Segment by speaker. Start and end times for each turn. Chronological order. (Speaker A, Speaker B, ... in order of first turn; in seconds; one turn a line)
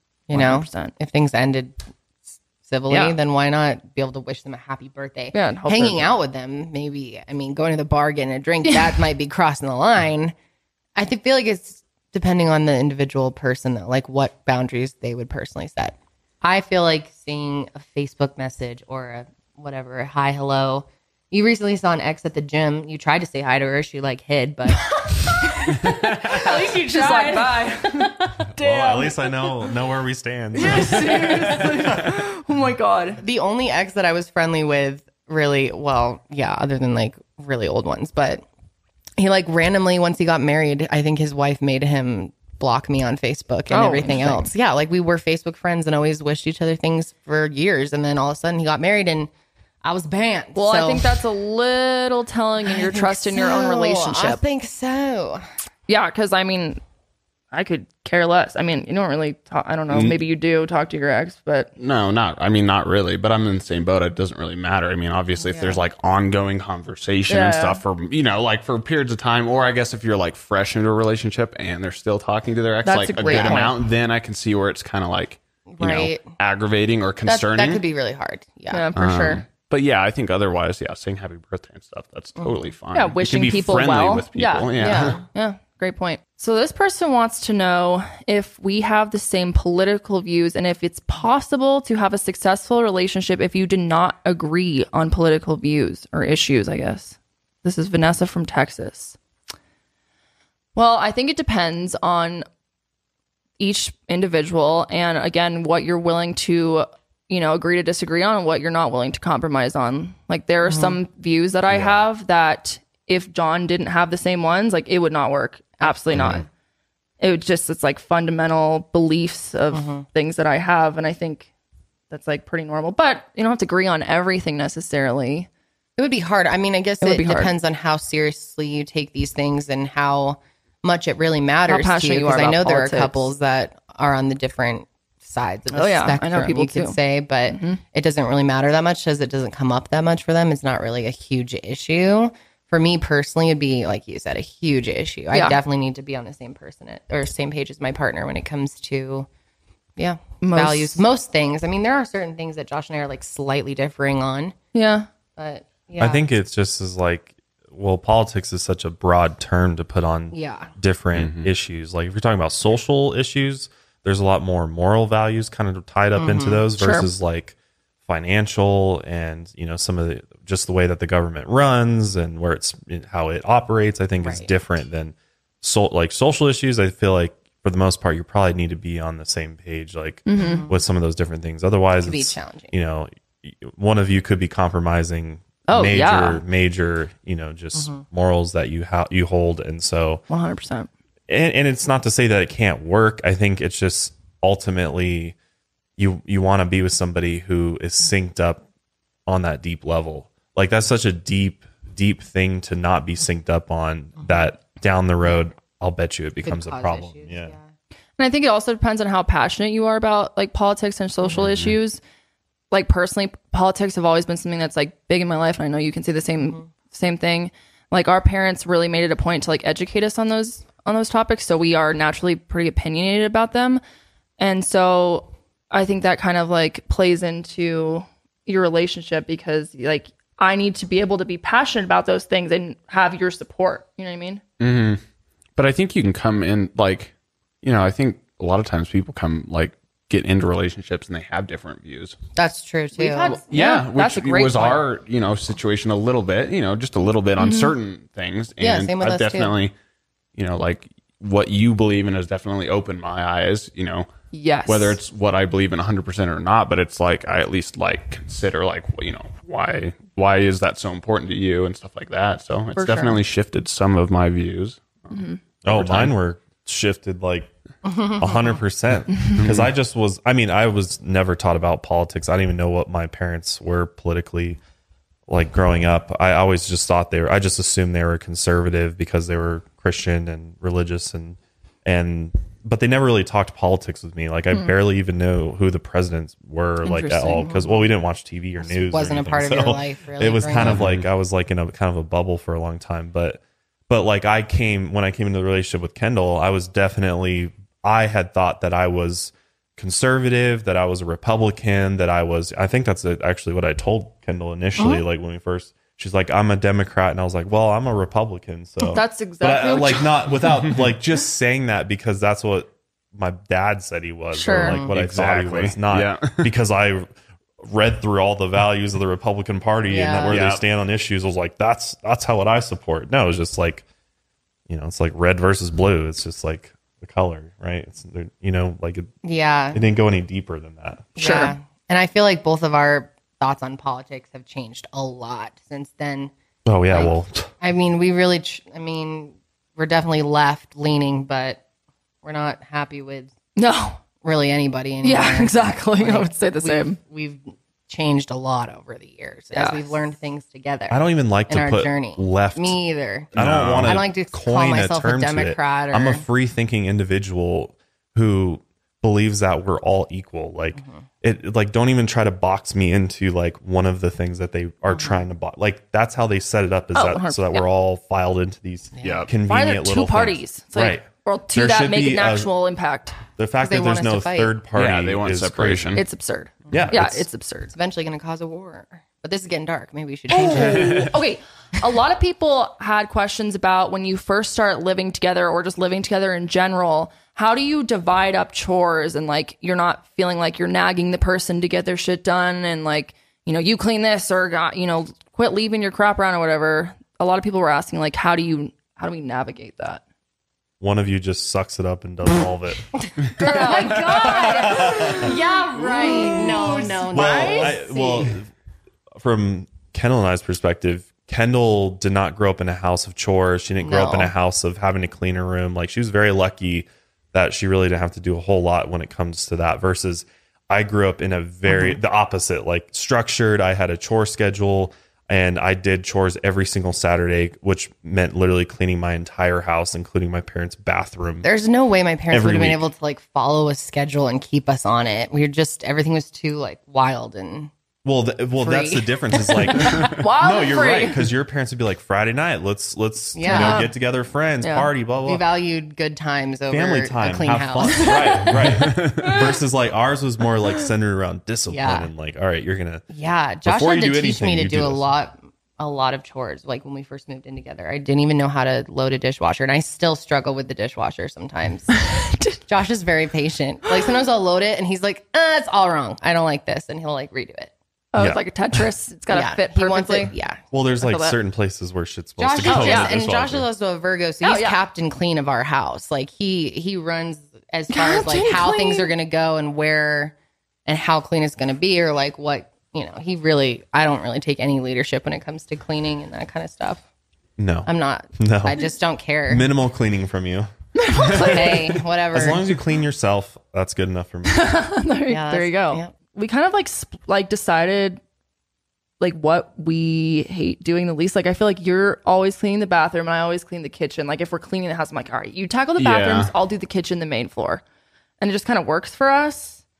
Speaker A: 0.3-1.8
Speaker B: 0.3-0.9
Speaker A: 2.6-10.3
Speaker B: 2.9-3.1
Speaker B: 5.3-6.1
Speaker A: 10.9-28.3
Speaker B: 25.0-29.3
Speaker C: 28.5-32.1
Speaker B: 30.6-33.2
Speaker A: 30.8-31.6
Speaker A: 33.2-38.4
Speaker A: 39.2-49.3
Speaker B: 43.7-44.5
Speaker A: 49.8-51.1
Speaker B: 50.5-54.4
Speaker A: 52.6-55.4
Speaker B: 55.9-56.8
Speaker B: 57.5-61.7
Speaker D: 59.9-60.2
Speaker D: 61.8-77.8
Speaker A: 65.4-65.8
Speaker B: 67.3-67.8
Speaker B: 72.8-73.8
Speaker A: 73.2-73.7
Speaker A: 75.7-76.3
Speaker A: 77.2-78.9
Speaker B: 78.7-79.4
Speaker D: 78.9-85.2
Speaker B: 82.9-99.2
Speaker A: 84.8-85.2
Speaker B: 100.8-102.5
Speaker B: 103.6-116.4
Speaker A: 110.6-111.0
Speaker D: 116.1-116.4
Speaker B: 117.2-121.5
Speaker A: 119.7-120.0
Speaker B: 122.1-125.5
Speaker A: 126.0-149.3
Speaker B: 127.0-127.5
Speaker B: 131.7-133.3
Speaker B: 135.7-136.9
Speaker B: 137.5-137.8
Speaker B: 145.3-145.6
Speaker A: 150.0-154.5
Speaker B: 150.4-151.0
Speaker B: 154.7-155.1
Speaker A: 155.4-156.2
Speaker C: 156.0-167.5
Speaker A: 160.3-160.7
Speaker D: 161.1-161.5
Speaker A: 166.2-166.6
Speaker B: 166.8-167.1
Speaker C: 168.1-190.2
Speaker A: 174.2-174.5
Speaker B: 180.2-180.7
Speaker A: 180.3-180.7
Speaker A: 182.0-182.7
Speaker B: 185.7-186.4
Speaker A: 187.8-188.0
Speaker B: 190.3-190.9
Speaker C: 191.3-195.3
Speaker C: 196.0-198.6
Speaker C: 199.3-207.6
Speaker A: 206.4-207.7
Speaker B: 208.2-212.0
Speaker D: 211.4-211.7
Speaker B: 212.7-223.8
Speaker B: 224.4-234.4
Speaker D: 234.6-235.0
Speaker D: 235.6-242.2
Speaker A: 242.3-243.3
Speaker B: 242.9-244.8
Speaker D: 243.2-249.7
Speaker B: 247.4-247.7
Speaker A: 248.6-249.6
Speaker D: 250.3-254.1
Speaker B: 254.3-255.0
Speaker D: 254.7-266.1
Speaker B: 262.7-263.2
Speaker B: 265.1-265.4
Speaker C: 265.6-267.5
Speaker A: 267.8-268.6
Speaker C: 268.1-274.6
Speaker D: 269.4-269.7
Speaker C: 275.3-317.1
Speaker B: 286.8-287.5
Speaker A: 287.4-287.8
Speaker A: 288.6-290.8
Speaker D: 290.6-291.1
Speaker A: 304.8-305.0
Speaker B: 308.8-310.3
Speaker A: 314.4-314.9
Speaker D: 314.9-316.5
Speaker C: 317.6-323.8
Speaker A: 319.9-320.4
Speaker D: 320.3-320.6
Speaker C: 324.7-329.1
Speaker A: 329.2-329.8
Speaker C: 329.7-331.1
Speaker A: 331.1-336.3
Speaker B: 331.2-331.5
Speaker C: 336.6-337.5
Speaker A: 336.9-341.6
Speaker A: 342.2-343.3
Speaker B: 343.6-344.0
Speaker A: 344.2-356.2
Speaker B: 345.0-347.0
Speaker B: 349.5-349.9
Speaker C: 350.9-352.8
Speaker C: 353.3-372.5
Speaker D: 353.3-354.0
Speaker A: 360.7-361.0
Speaker A: 364.9-365.2
Speaker B: 366.9-367.7
Speaker A: 368.9-369.3
Speaker D: 369.0-369.3
Speaker B: 369.4-373.2
Speaker C: 373.4-376.0
Speaker A: 373.6-374.6
Speaker D: 374.7-376.0
Speaker B: 375.9-377.7
Speaker C: 376.7-377.3
Speaker A: 377.7-381.1
Speaker B: 380.3-400.0
Speaker D: 380.5-381.1
Speaker C: 400.8-402.9
Speaker A: 403.0-408.3
Speaker B: 403.4-407.7
Speaker C: 404.1-405.3
Speaker C: 406.0-408.5
Speaker C: 409.1-431.5
Speaker A: 413.8-414.3
Speaker A: 421.7-422.0
Speaker A: 431.4-437.7
Speaker C: 432.3-432.8
Speaker C: 438.0-445.4
Speaker A: 438.6-439.9
Speaker B: 439.8-441.2
Speaker A: 443.3-443.9
Speaker B: 443.5-443.8
Speaker B: 444.6-444.9
Speaker A: 445.2-448.6
Speaker C: 446.7-453.0
Speaker B: 447.9-449.4
Speaker D: 449.0-449.3
Speaker A: 451.7-452.1
Speaker A: 453.1-462.1
Speaker C: 453.6-455.0
Speaker B: 462.0-462.6
Speaker A: 462.6-467.7
Speaker B: 468.1-470.3
Speaker C: 468.1-468.8
Speaker A: 469.3-470.6
Speaker C: 470.7-473.7
Speaker B: 471.0-471.4
Speaker A: 472.4-480.3
Speaker B: 472.6-473.1
Speaker B: 474.4-474.8
Speaker B: 477.9-479.1
Speaker A: 480.9-487.0
Speaker C: 487.6-488.9
Speaker A: 487.8-489.7
Speaker C: 489.5-490.7
Speaker B: 490.9-492.0
Speaker A: 491.2-492.7
Speaker C: 492.3-494.8
Speaker B: 494.4-498.2
Speaker A: 495.3-496.1
Speaker B: 499.2-507.8
Speaker D: 506.0-506.5
Speaker B: 508.4-509.8